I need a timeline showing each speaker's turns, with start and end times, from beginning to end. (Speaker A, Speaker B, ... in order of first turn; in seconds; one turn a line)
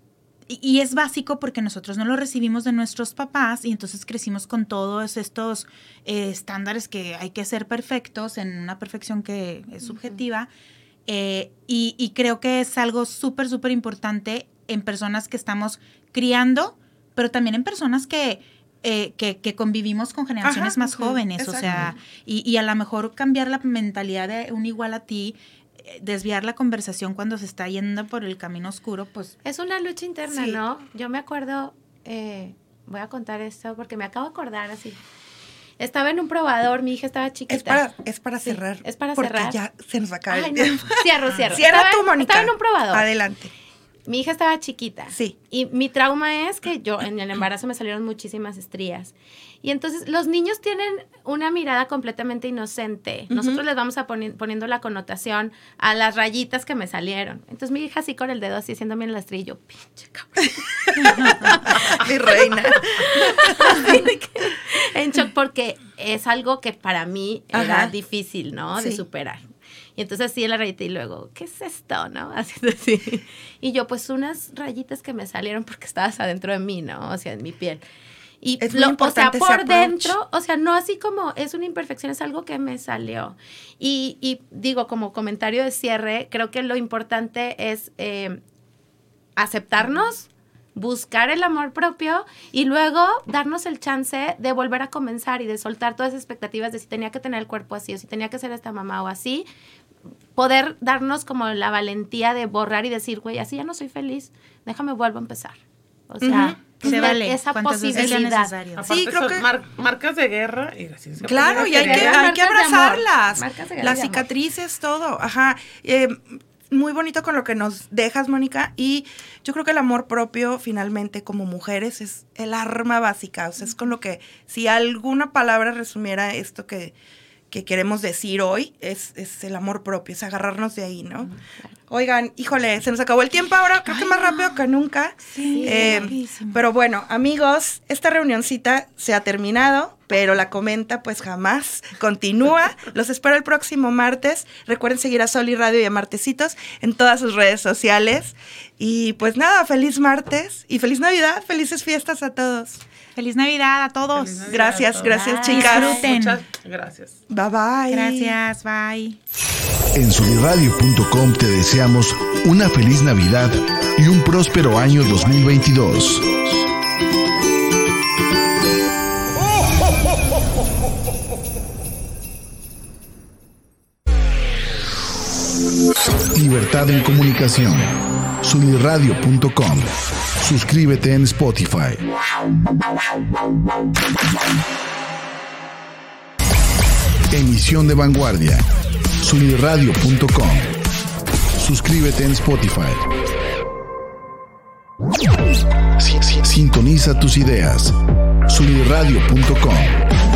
Speaker A: 0.5-10.5
Speaker A: 11.1-29.3
Speaker B: 20.4-21.9
Speaker C: 21.6-21.9
Speaker D: 29.4-35.0
Speaker B: 30.3-30.6
Speaker D: 35.8-37.8
Speaker B: 37.5-43.5
Speaker D: 38.4-39.6
Speaker D: 40.3-43.1
Speaker D: 44.1-69.4
Speaker B: 45.1-45.4
Speaker B: 53.3-53.6
Speaker B: 60.9-64.0
Speaker B: 67.5-67.9
Speaker B: 68.8-69.0
Speaker D: 70.0-77.8
Speaker D: 78.4-88.4
Speaker B: 78.6-80.2
Speaker D: 89.3-99.5
Speaker D: 100.3-108.5
Speaker B: 106.2-107.2
Speaker A: 106.8-108.8
Speaker B: 107.9-108.2
Speaker C: 108.8-112.3
Speaker B: 108.8-109.5
Speaker B: 111.2-126.9
Speaker D: 111.5-114.2
Speaker B: 127.5-131.3
Speaker B: 131.9-152.8
Speaker A: 133.9-134.6
Speaker A: 135.3-136.6
Speaker D: 135.5-136.1
Speaker A: 153.2-154.6
Speaker C: 154.1-157.2
Speaker B: 154.5-156.1
Speaker D: 155.1-155.8
Speaker A: 155.4-156.4
Speaker B: 157.3-158.4
Speaker A: 157.9-159.2
Speaker E: 159.9-166.3
Speaker E: 176.3-177.9
Speaker E: 178.4-179.9
Speaker E: 180.4-182.0
Speaker E: 187.3-188.6
Speaker E: 189.2-190.7
Speaker E: 191.6-193.0
Speaker E: 196.0-197.9
Speaker E: 198.5-200.0